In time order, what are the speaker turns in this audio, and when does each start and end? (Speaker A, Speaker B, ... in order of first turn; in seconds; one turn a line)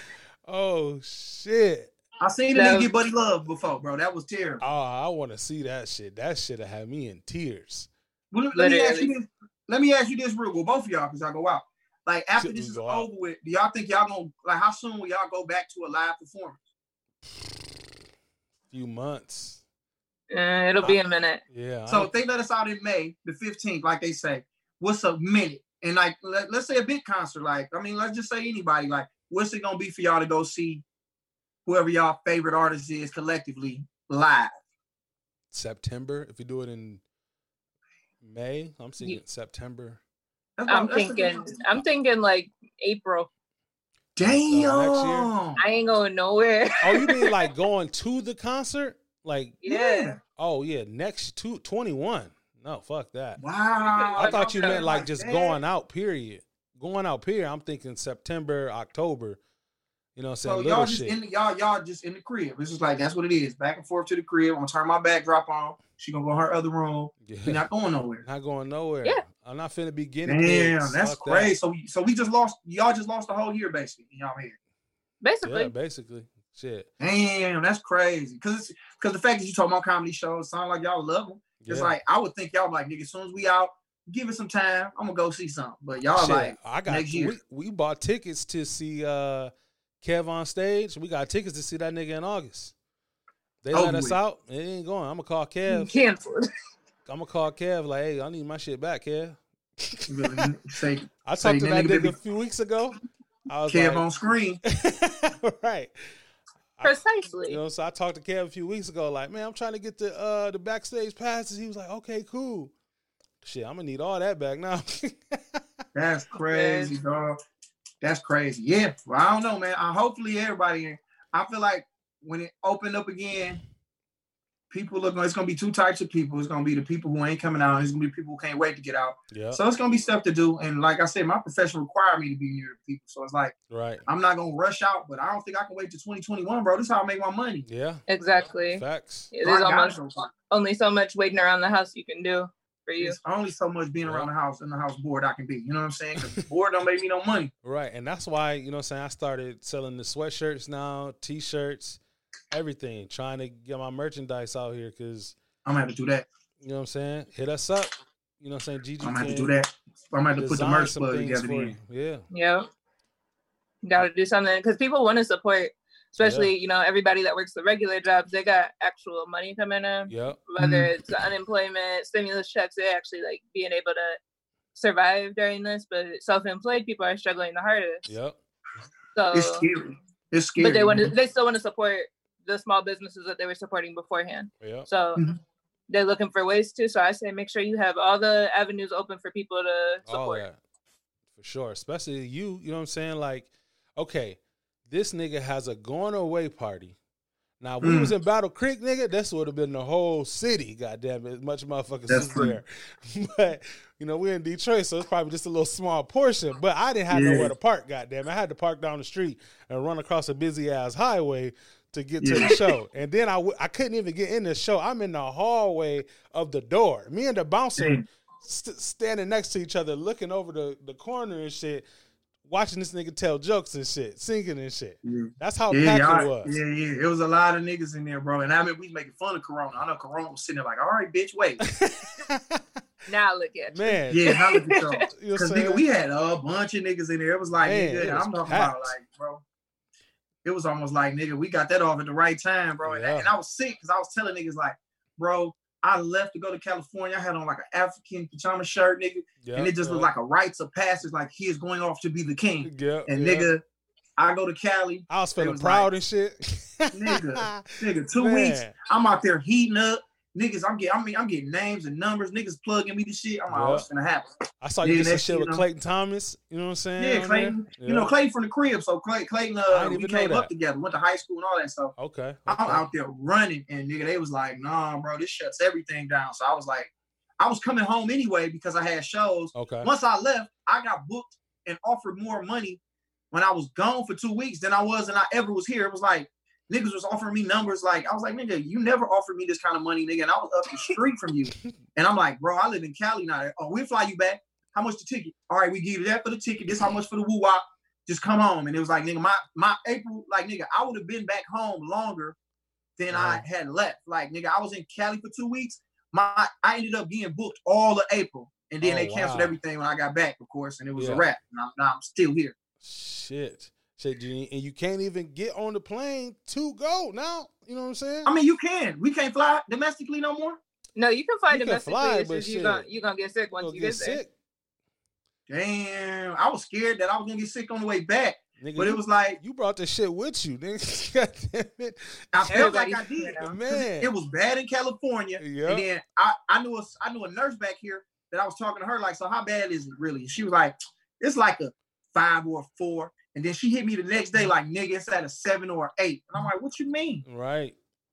Speaker A: 0.5-1.9
Speaker B: 2.2-4.6
Speaker C: 2.5-2.9
Speaker A: 4.6-7.9
Speaker B: 8.3-16.6
Speaker C: 8.5-9.1
Speaker A: 12.3-13.1
Speaker A: 18.7-19.6
Speaker C: 20.3-21.4
Speaker A: 20.8-22.1
Speaker B: 21.9-30.8
Speaker B: 31.6-34.5
Speaker A: 35.5-37.0
Speaker A: 38.2-40.0
Speaker B: 40.6-41.5
Speaker C: 40.7-43.3
Speaker B: 44.1-45.6
Speaker A: 44.2-45.3
Speaker C: 45.6-47.4
Speaker A: 46.8-49.6
Speaker C: 49.6-50.1
Speaker B: 49.6-50.2
Speaker A: 50.4-53.4
Speaker B: 53.4-55.6
Speaker C: 53.8-54.8
Speaker A: 54.2-59.4
Speaker A: 60.1-61.2
Speaker B: 60.4-68.2
Speaker A: 67.2-67.6
Speaker A: 68.2-71.5
Speaker B: 70.2-74.5
Speaker C: 75.2-75.7
Speaker A: 75.4-76.9
Speaker B: 77.0-87.3
Speaker A: 81.6-81.9
Speaker A: 86.1-89.5
Speaker A: 90.0-92.7
Speaker A: 93.6-96.0
Speaker B: 93.7-94.2
Speaker C: 95.7-96.5
Speaker A: 97.0-100.4
Speaker B: 100.1-102.2
Speaker A: 101.2-104.1
Speaker B: 103.7-104.6
Speaker A: 104.6-105.9
Speaker A: 106.8-112.7
Speaker C: 106.8-107.6
Speaker A: 113.4-115.6
Speaker B: 115.9-117.4
Speaker C: 116.5-116.9
Speaker B: 118.0-123.6
Speaker B: 124.7-137.7
Speaker A: 129.3-129.6
Speaker A: 133.7-134.0
Speaker A: 137.7-138.0
Speaker C: 138.1-139.9
Speaker A: 138.7-139.3
Speaker B: 139.4-140.3
Speaker C: 140.5-143.2
Speaker B: 143.0-147.5
Speaker A: 144.0-144.3
Speaker A: 147.6-152.0
Speaker A: 152.5-155.3
Speaker B: 155.6-156.3
Speaker A: 156.6-159.6
Speaker B: 159.0-161.8
Speaker A: 160.3-162.2
Speaker C: 162.3-162.7
Speaker C: 163.8-174.2
Speaker A: 166.2-166.5
Speaker A: 170.1-170.4
Speaker B: 170.6-170.9
Speaker C: 174.7-178.1
Speaker A: 178.1-178.3
Speaker C: 179.1-179.7
Speaker B: 179.3-181.1
Speaker C: 180.6-185.2
Speaker A: 184.6-184.9
Speaker C: 185.9-190.4
Speaker A: 190.1-190.6
Speaker A: 191.4-196.9
Speaker A: 197.6-221.8
Speaker B: 197.8-198.1
Speaker B: 202.1-202.6
Speaker B: 207.1-207.5
Speaker B: 212.2-212.5
Speaker B: 217.8-218.1
Speaker A: 222.4-226.6
Speaker B: 225.0-231.6
Speaker A: 231.8-232.6
Speaker C: 233.1-234.9
Speaker A: 233.7-234.3
Speaker B: 234.1-239.4
Speaker A: 235.1-235.8
Speaker A: 237.6-238.9
Speaker B: 240.4-253.6
Speaker A: 242.8-243.3
Speaker A: 249.4-250.1
Speaker A: 252.6-253.6
Speaker B: 254.2-255.9
Speaker A: 255.1-258.7
Speaker B: 256.9-264.3
Speaker A: 263.5-263.9
Speaker A: 264.6-268.1
Speaker B: 264.8-265.6
Speaker B: 267.0-271.9
Speaker A: 269.7-270.5
Speaker A: 272.0-272.9
Speaker B: 272.4-282.8
Speaker A: 279.5-279.9
Speaker B: 283.3-302.4
Speaker B: 303.0-312.5
Speaker A: 303.1-303.4
Speaker A: 308.8-309.6
Speaker A: 310.9-311.3
Speaker A: 312.8-318.3
Speaker B: 318.2-320.6
Speaker C: 320.9-324.2
Speaker A: 321.5-322.9
Speaker A: 323.6-324.3
Speaker B: 325.5-329.4
Speaker A: 328.6-332.7
Speaker B: 332.3-347.2
Speaker C: 332.5-333.5
Speaker A: 333.4-334.1
Speaker A: 335.4-335.9
Speaker A: 347.2-347.7